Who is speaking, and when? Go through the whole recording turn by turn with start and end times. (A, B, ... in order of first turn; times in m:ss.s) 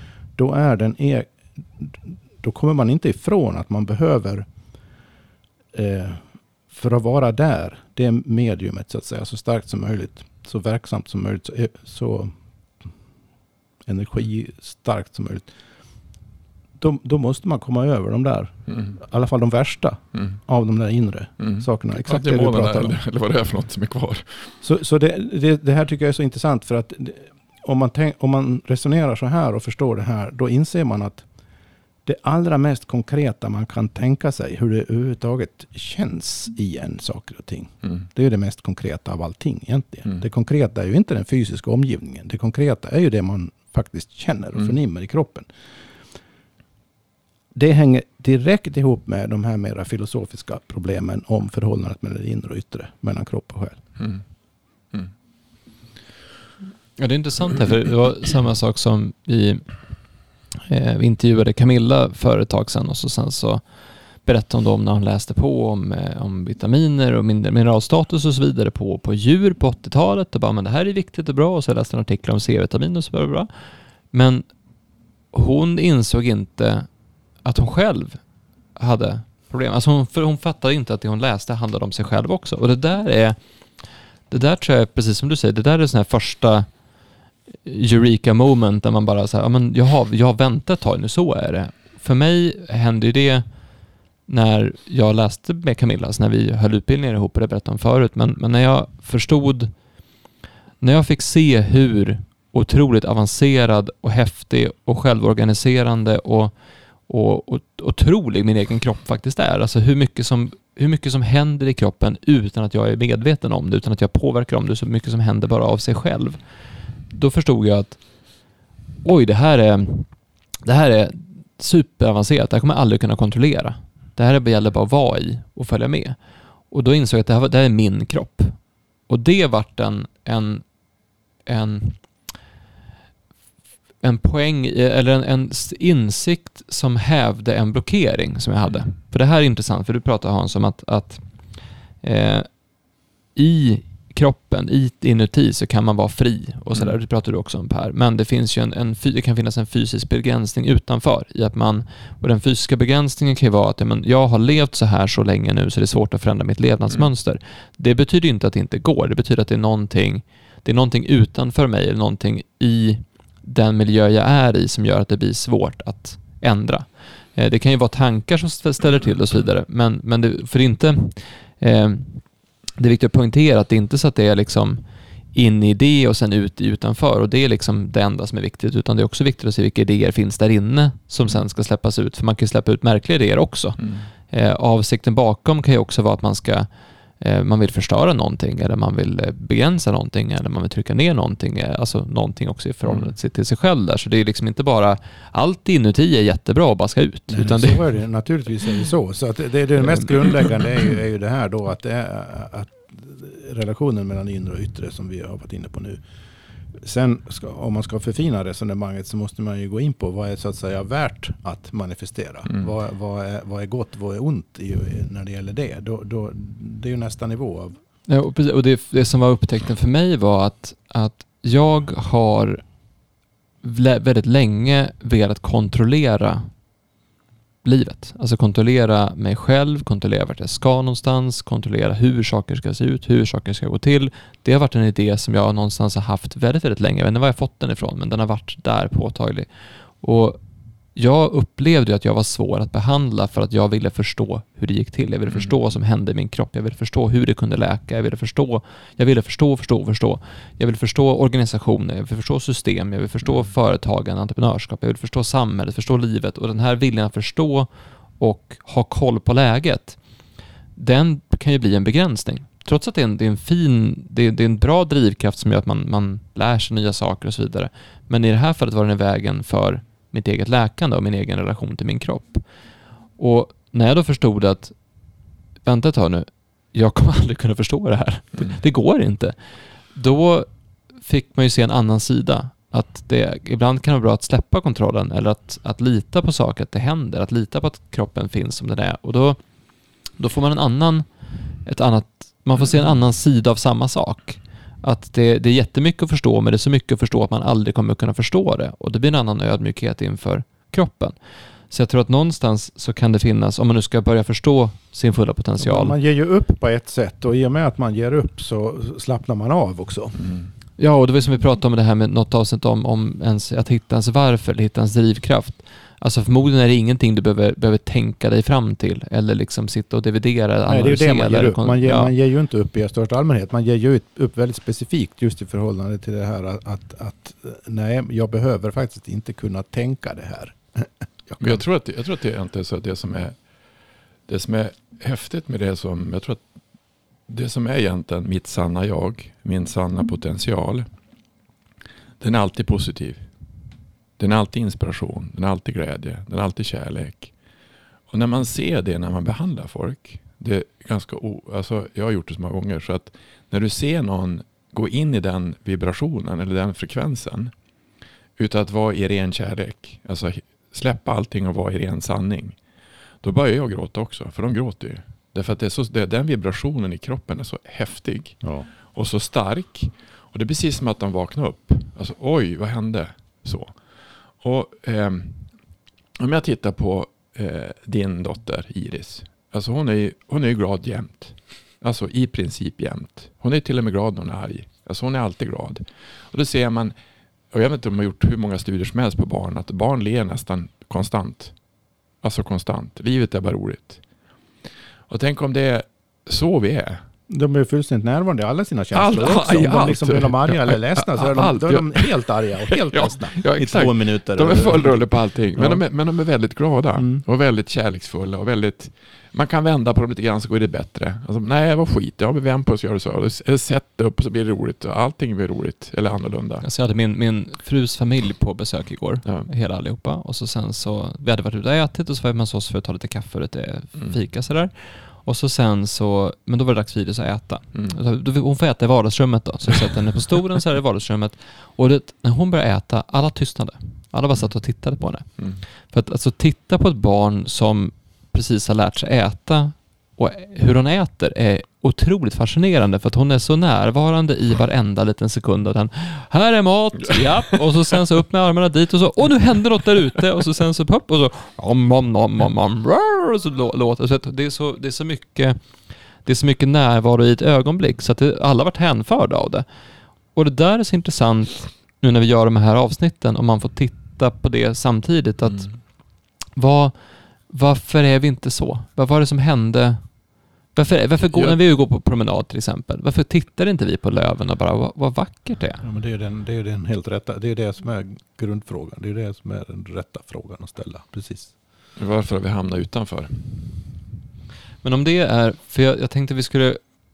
0:00.4-0:04.5 A
0:05.7-0:12.3 A
0:13.9-0:15.5 A
0:16.8-0:23.0 A
0:18.7-0:19.0 B
0:21.4-0:24.5 B
0:24.6-0:31.2 A
0:32.0-0:45.5 A
0:47.5-0:53.8 A
0:57.0-0:59.6 C
1:00.7-1:03.6 C
1:04.2-1:13.5 C
1:14.1-1:14.5 C
1:15.3-1:16.9 C
1:17.4-1:18.2 C
1:18.8-1:23.4 C
1:24.3-1:26.7 C
1:27.6-1:33.5 C
1:34.3-1:39.7 C
1:40.8-1:46.5 C
1:47.1-1:56.4 C
1:57.1-1:58.0 C
1:59.0-2:00.1 C
2:00.6-2:06.2 C
2:06.7-2:08.6 C
2:09.1-2:10.6 C
2:11.5-2:12.0 C
2:14.0-2:21.2 C
2:22.0-2:22.5 C
2:23.4-2:52.3 C
2:52.8-2:54.8 C
2:55.3-3:06.7 C
3:03.8-3:04.1 B
3:07.2-3:17.8 C
3:12.9-3:13.1 B
3:17.3-3:26.0 A
3:26.8-3:37.8 A
3:38.1-3:42.6 C
3:43.6-3:46.5 C
3:47.6-4:00.4 C
4:01.0-4:20.0 C
4:20.8-4:32.4 C
4:33.2-4:34.8 C
4:35.6-4:39.4 C
4:39.9-4:40.5 C
4:41.0-4:49.4 C
4:50.2-4:51.1 C
4:51.6-5:01.2 C
5:01.7-5:06.0 C
5:05.6-5:10.2 A
5:10.2-5:10.5 B
5:10.8-5:22.1 C
5:20.7-5:31.6 A
5:31.4-5:33.4 B
5:34.3-5:36.4 B
5:37.3-5:40.9 B
5:42.2-5:43.2 B
5:44.2-5:47.3 B
5:48.1-5:57.5 B
5:58.4-6:02.6 B
6:03.2-6:13.8 B
6:14.4-6:15.5 B
6:16.2-6:27.0 B
6:27.5-6:31.5 B
6:32.2-6:34.0 B
6:35.1-6:37.0 B
6:37.3-6:45.8 A
6:38.9-6:56.7 B
6:47.0-6:47.2 A
6:56.6-7:15.3 C
7:15.8-7:35.6 C
7:36.2-7:39.7 C
7:40.4-7:45.7 C
7:46.6-7:46.9 C
7:47.5-7:50.1 C
7:50.7-7:55.8 C
7:55.8-8:01.5 A
8:02.0-8:03.7 B
8:04.8-8:06.8 C